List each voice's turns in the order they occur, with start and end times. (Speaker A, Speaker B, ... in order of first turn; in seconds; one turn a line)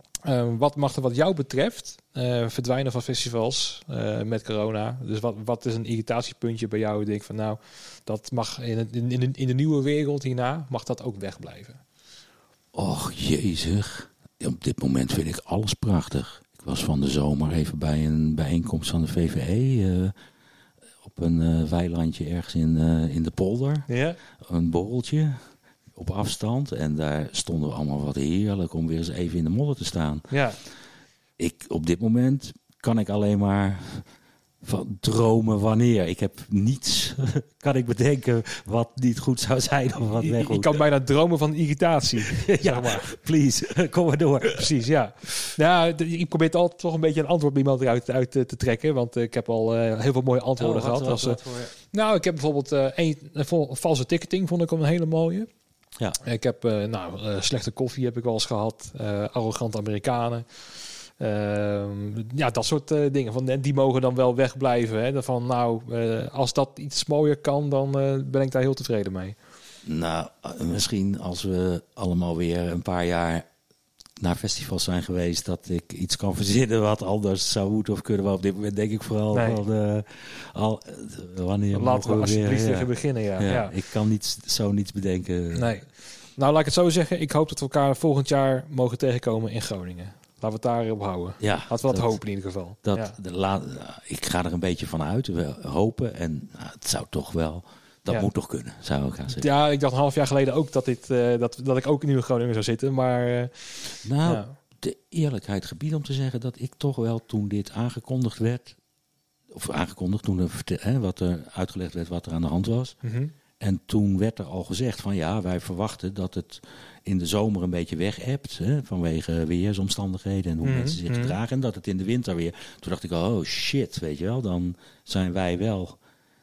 Speaker A: 0.2-11.8
Speaker B: 12.7-20.1
Speaker B: 21.0-25.4
Speaker A: 23.9-24.2
Speaker B: 25.9-30.3
Speaker A: 30.3-30.6
Speaker B: 31.4-34.0
Speaker B: 34.6-40.8
Speaker A: 40.2-43.1
Speaker B: 42.2-44.7
Speaker A: 44.6-51.4
Speaker B: 50.6-51.7
Speaker A: 51.9-55.5
Speaker A: 56.2-69.3
Speaker B: 69.8-73.5
Speaker B: 74.2-85.8
Speaker A: 79.3-79.6
Speaker A: 81.7-83.7
Speaker A: 85.5-93.1
Speaker B: 91.4-92.2
Speaker B: 92.8-99.4
Speaker A: 99.3-103.7
Speaker B: 104.0-108.8
Speaker A: 104.2-104.5
Speaker B: 109.5-113.0
Speaker A: 113.0-113.3
Speaker B: 113.6-126.0
Speaker A: 120.6-121.3